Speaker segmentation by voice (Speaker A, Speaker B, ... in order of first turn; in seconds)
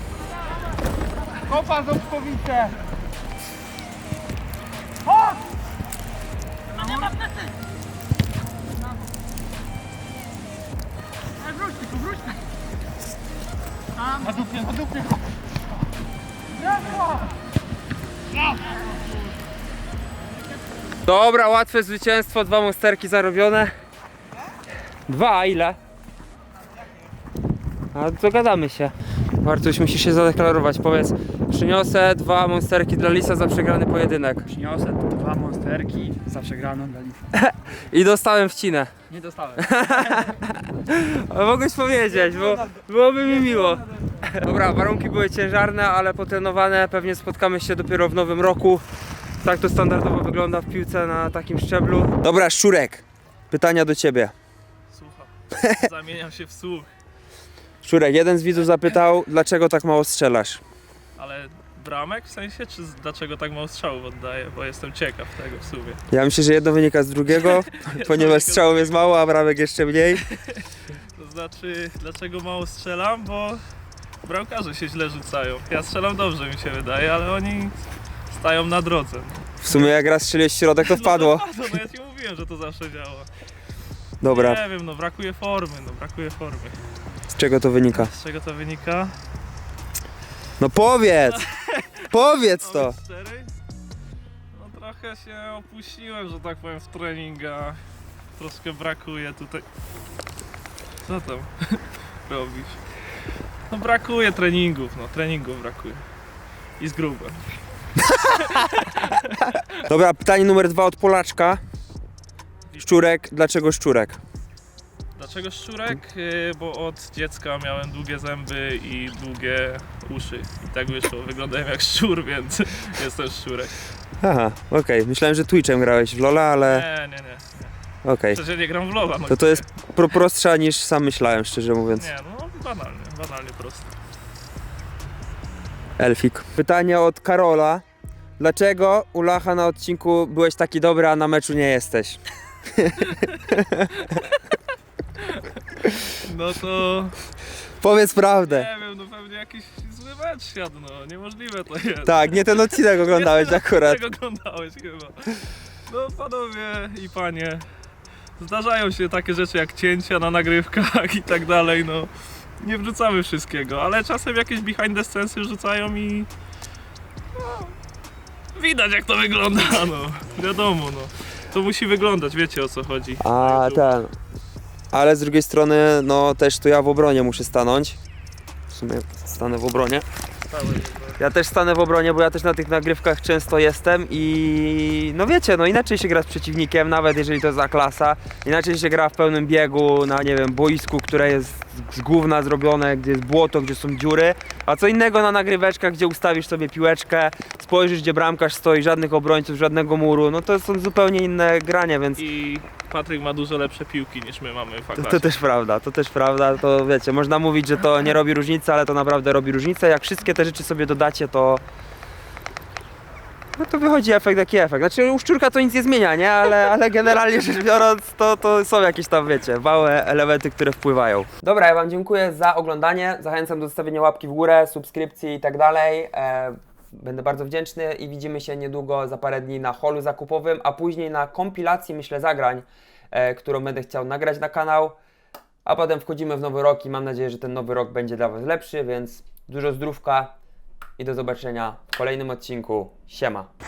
Speaker A: 1.5-2.7, 21.0-23.7, 25.1-25.8, 27.9-34.5, 37.3-38.9, 39.5-48.8, 49.4-54.3, 55.5-55.8, 57.8-60.6, 66.1-70.2, 79.6-81.4, 84.2-84.6, 87.3-88.1, 90.6-91.4, 92.1-93.0, 108.0-108.5, 109.7-111.6, 112.8-114.2, 124.2-126.8, 128.0-128.4, 129.3-132.1, 136.0-137.8, 138.4-144.0, 147.8-148.7, 152.1-154.0, 173.2-174.1, 174.9-178.0, 178.7-180.0, 181.2-202.2, 204.9-211.6, 213.6-234.9, 235.6-240.3, 241.0-243.5
Speaker B: 34.5-37.2, 39.1-39.5
Speaker C: 54.9-56.9, 61.1-66.0, 67.4-68.9, 70.3-73.6, 74.2-79.9, 80.8-83.3, 84.2-86.8, 87.9-89.1, 91.3-93.5, 94.5-97.8, 98.3-99.7, 101.0-102.8, 103.7-106.0, 106.8-107.5, 108.0-109.6, 112.7-113.0, 115.2-123.8, 126.6-127.7, 128.3-129.7, 132.0-133.9, 143.0-144.4, 145.2-147.2, 148.4-157.7, 158.4-166.3, 167.3-167.7, 168.5-173.9, 180.5-181.2, 202.2-205.3